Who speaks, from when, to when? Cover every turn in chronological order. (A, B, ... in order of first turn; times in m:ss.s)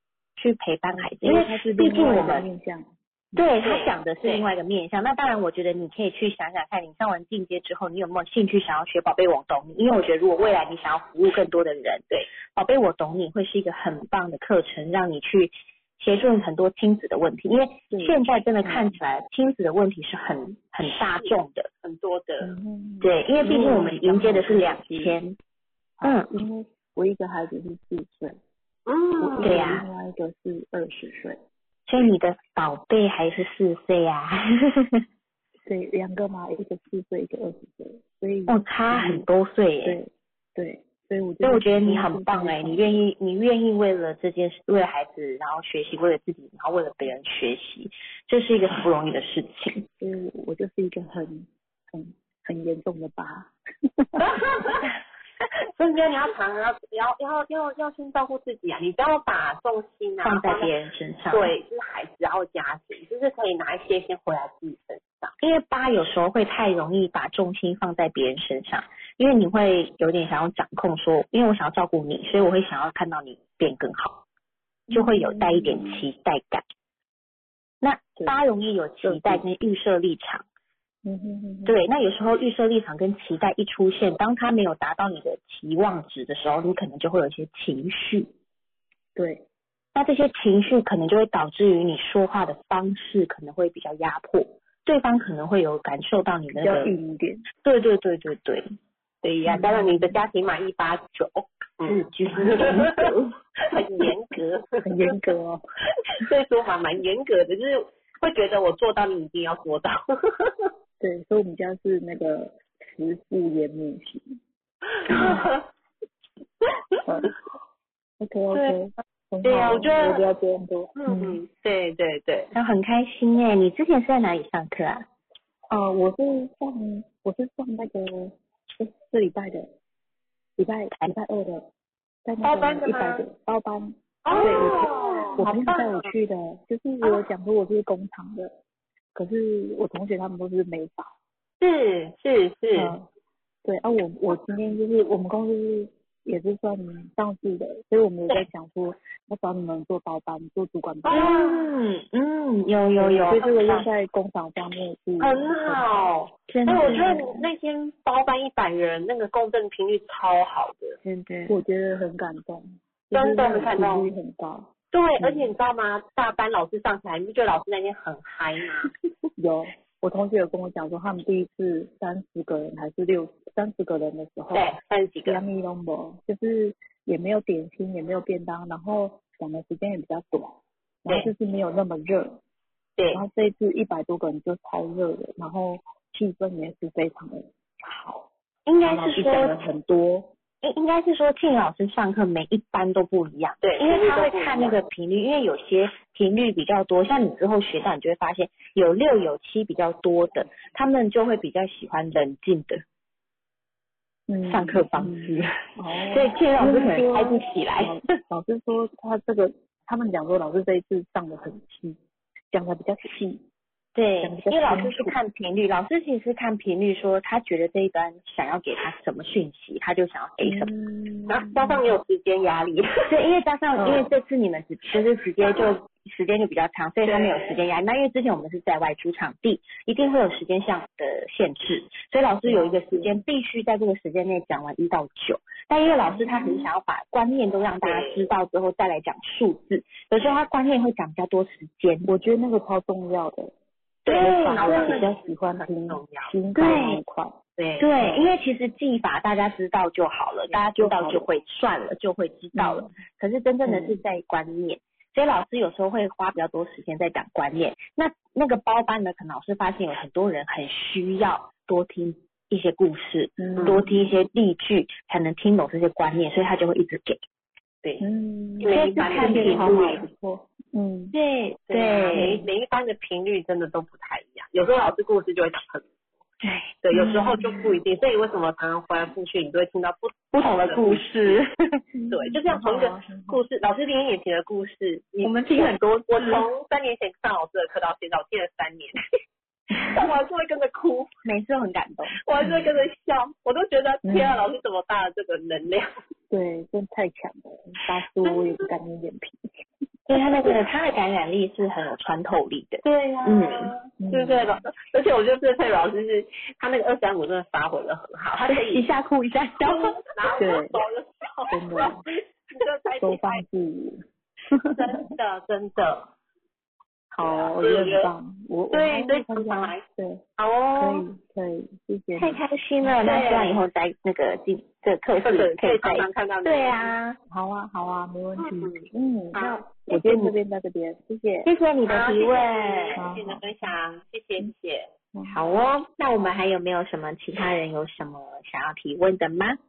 0:00.4-0:02.4 A
0:01.1-0:03.4 B
0:03.4-0:21.7 A
0:03.6-0:04.5 C
0:17.9-0:18.9 B
0:21.8-0:22.5 C
0:22.4-0:25.2 B
0:23.0-0:25.4 A
0:26.0-0:28.4 B
0:26.0-0:26.3 A
0:28.9-0:29.6 C
0:29.2-0:31.4 B
0:29.4-0:29.8 A
0:31.9-0:35.0 A
0:35.6-0:39.2 B
0:38.5-0:40.0 A
0:39.8-0:42.9 B
0:41.4-0:49.9 A
0:50.0-0:54.4 B
0:54.2-0:54.8 C
0:55.7-1:00.7 C
1:00.2-1:01.5 A
1:01.3-1:05.3 C
1:05.4-1:14.2 A
1:14.9-1:16.0 B
1:14.9-1:16.6 A
1:17.8-1:20.4 A
1:19.0-1:19.4 B
1:21.0-1:21.8 B
1:21.6-1:28.3 A
1:29.2-1:29.4 B
1:29.9-1:36.9 A
1:36.6-1:37.4 B
1:37.6-1:38.7 A
1:39.2-1:43.1 C
1:39.5-1:40.1 B
1:41.8-1:43.3 A
1:43.6-1:45.1 C
1:44.8-1:45.6 B
1:46.1-1:50.7 C
1:51.0-1:54.4 B
1:55.0-1:55.6 C
1:55.1-1:55.4 B
1:57.0-1:57.4 B
1:58.2-2:01.4 B
1:59.4-2:00.2 C
2:01.0-2:02.5 C
2:02.5-2:05.1 A
2:05.7-2:09.7 B
2:10.6-2:11.7 B
2:12.2-2:18.5 B
2:12.4-2:13.2 C
2:14.2-2:16.1 C
2:14.3-2:14.8 A
2:19.1-2:21.1 B
2:21.6-2:22.9 C
2:22.7-2:23.1 B
2:23.6-2:31.4 B
2:31.0-2:31.6 C
2:31.1-2:33.9 A
2:33.0-2:35.9 B
2:35.2-2:41.0 C
2:36.5-2:37.4 A
2:41.0-2:41.6 A
2:41.5-2:45.5 B
2:43.1-2:44.1 C
2:44.9-2:48.9 C
2:49.4-2:54.7 B
2:54.5-2:55.4 C
2:55.2-3:02.4 B
3:03.0-3:03.2 C
3:03.1-3:08.3 B
3:08.6-3:09.6 A
3:08.8-3:10.3 B
3:10.6-3:22.8 A
3:13.6-3:14.8 C
3:24.3-3:32.0 B
3:24.5-3:28.0 A
3:32.5-3:33.4 B
3:33.9-3:40.7 A
3:34.2-3:35.2 B
3:40.4-3:41.9 B
3:41.3-3:43.1 C
3:43.1-4:02.1 A
3:47.0-3:47.6 C
3:52.4-3:53.1 B
3:56.2-3:56.6 B
3:57.8-3:58.2 C
4:02.1-4:03.5 B
4:04.1-4:06.4 C
4:04.1-4:07.4 B
4:04.1-4:05.0 A
4:06.5-4:07.0 A
4:07.6-4:08.2 C
4:07.8-4:27.2 A
4:10.5-4:11.2 B
4:12.5-4:12.9 B
4:13.6-4:14.0 B
4:23.4-4:24.0 B
4:28.0-4:31.1 B
4:28.6-4:30.0 C
4:28.7-4:30.0 A
4:31.1-4:32.4 A
4:31.7-4:35.9 C
4:32.1-4:32.4 B
4:36.4-4:37.4 A
4:36.8-4:41.4 C
4:40.3-4:41.8 A
4:41.9-4:43.4 B
4:42.1-4:49.0 C
4:45.2-4:46.5 A
4:49.7-4:51.1 C
4:51.2-4:52.2 A
4:52.2-4:55.9 C
4:54.0-4:54.4 B
4:56.3-4:59.4 B
4:58.2-4:58.6 C
5:00.1-5:03.7 A
5:02.8-5:08.8 C
5:04.0-5:04.6 B
5:08.4-5:10.0 A
5:09.6-5:13.4 C
5:10.4-5:10.8 B
5:11.5-5:12.0 B
5:13.0-5:14.8 B
5:14.7-5:16.1 C
5:17.1-5:20.2 B
5:17.3-5:18.1 C
5:18.7-5:19.8 C
5:20.4-5:21.1 C
5:20.8-5:22.4 B
5:22.2-5:27.2 A
5:23.0-5:23.6 C
5:25.2-5:26.9 C
5:27.3-5:31.5 B
5:28.4-5:29.6 C
5:29.9-5:30.3 A
5:31.4-5:33.0 A
5:31.9-5:34.9 C
5:32.9-5:33.5 B
5:35.1-5:35.4 B
5:35.3-5:39.6 A